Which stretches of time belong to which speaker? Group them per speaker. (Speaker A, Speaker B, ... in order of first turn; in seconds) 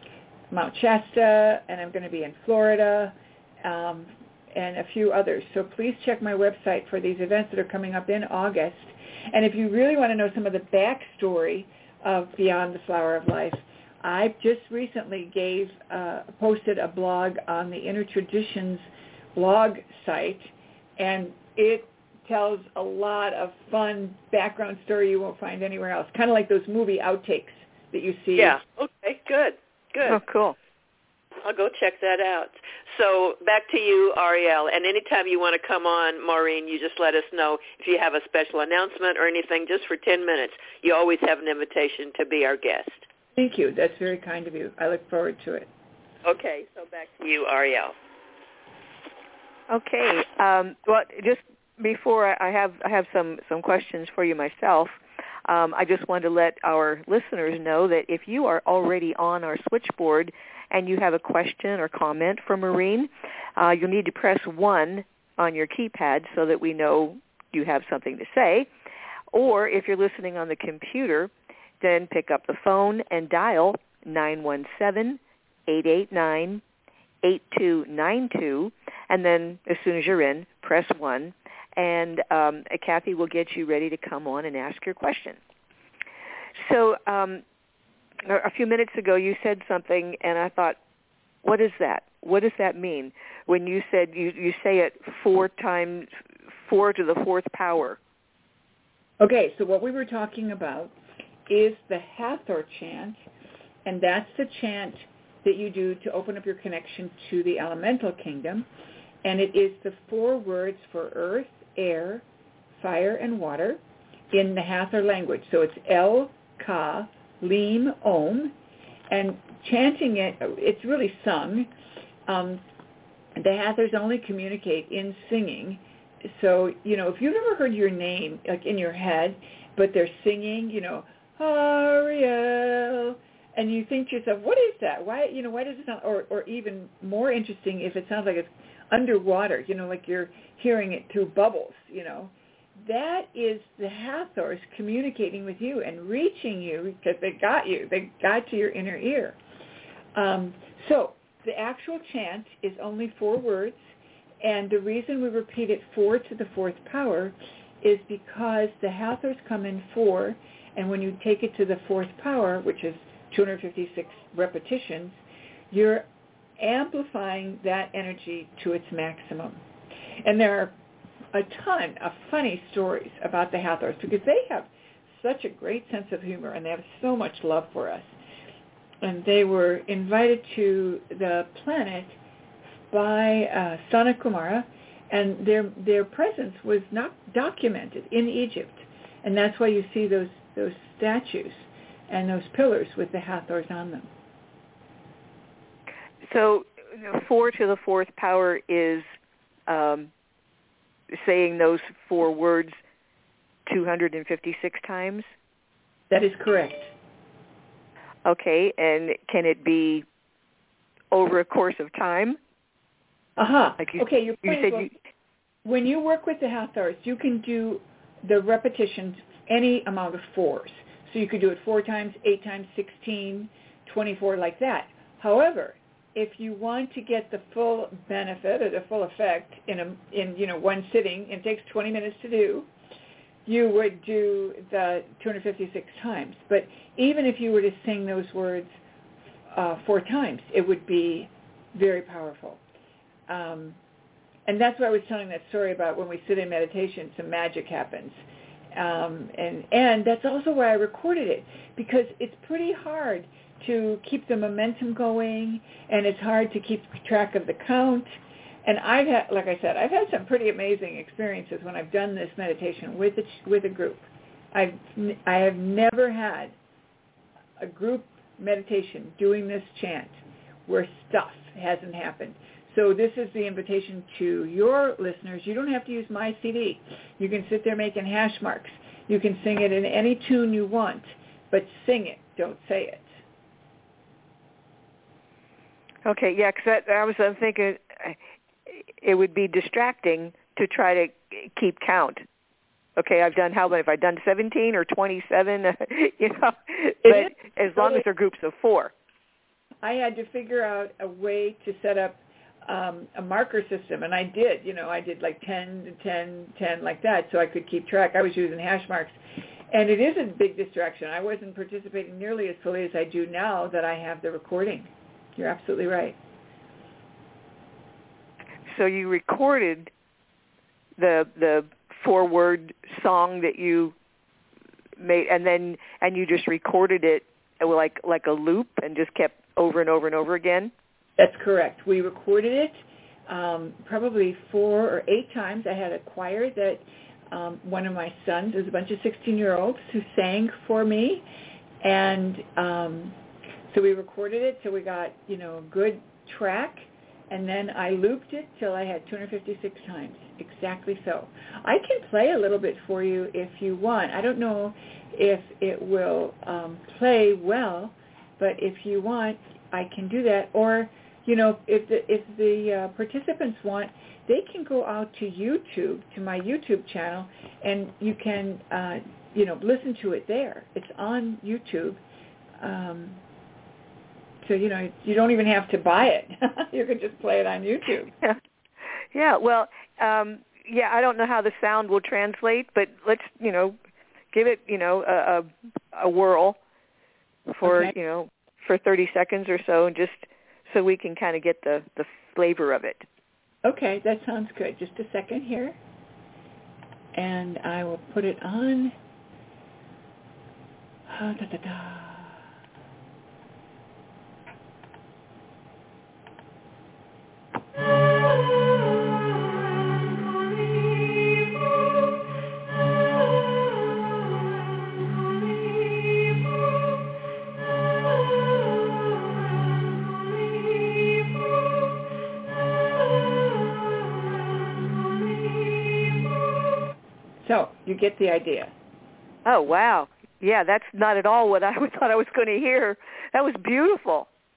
Speaker A: 0.5-28.6, 43.4-45.7, 99.2-100.9, 101.5-103.2, 103.8-108.7, 109.2-112.2, 112.8-113.8, 114.3-118.5, 119.1-121.7, 122.3-122.6, 123.3-149.4, 150.2-153.8, 154.4-165.2, 165.7-166.1, 166.6-169.6, 170.2-170.7, 171.3-178.1, 179.0-182.2, 182.9-194.1, 206.1-206.9, 213.4-214.9, 215.7-232.7, 233.5-238.7, 239.5-242.6, 243.3-243.8, 244.5-248.2, 248.7-266.6, 267.6-283.1, 297.0-298.0, 299.8-309.2, 309.7-316.2, 331.2-332.8, 333.3-341.2, 341.8-343.2, 343.7-372.0, 372.6-373.2, 374.4-378.1, 387.6-387.9, 393.6-395.8, 397.1-398.9, 401.1-402.4, 427.4-428.7
Speaker B: 28.4-30.2, 31.4-43.1, 46.2-48.0
Speaker C: 30.1-30.6, 49.7-68.7, 69.3-76.6, 77.2-85.4, 86.6-87.4, 88.2-90.8, 91.4-96.1, 96.7-98.0, 196.3-199.1, 199.7-200.1, 201.2-202.8, 203.7-205.3, 208.2-210.1, 211.1-212.4, 213.8-214.9, 286.1-288.2, 289.0-292.3, 293.0-298.9, 318.7-319.9, 321.0-323.9, 325.0-330.7, 379.1-383.8, 384.3-386.6, 387.5-393.1, 429.5-434.3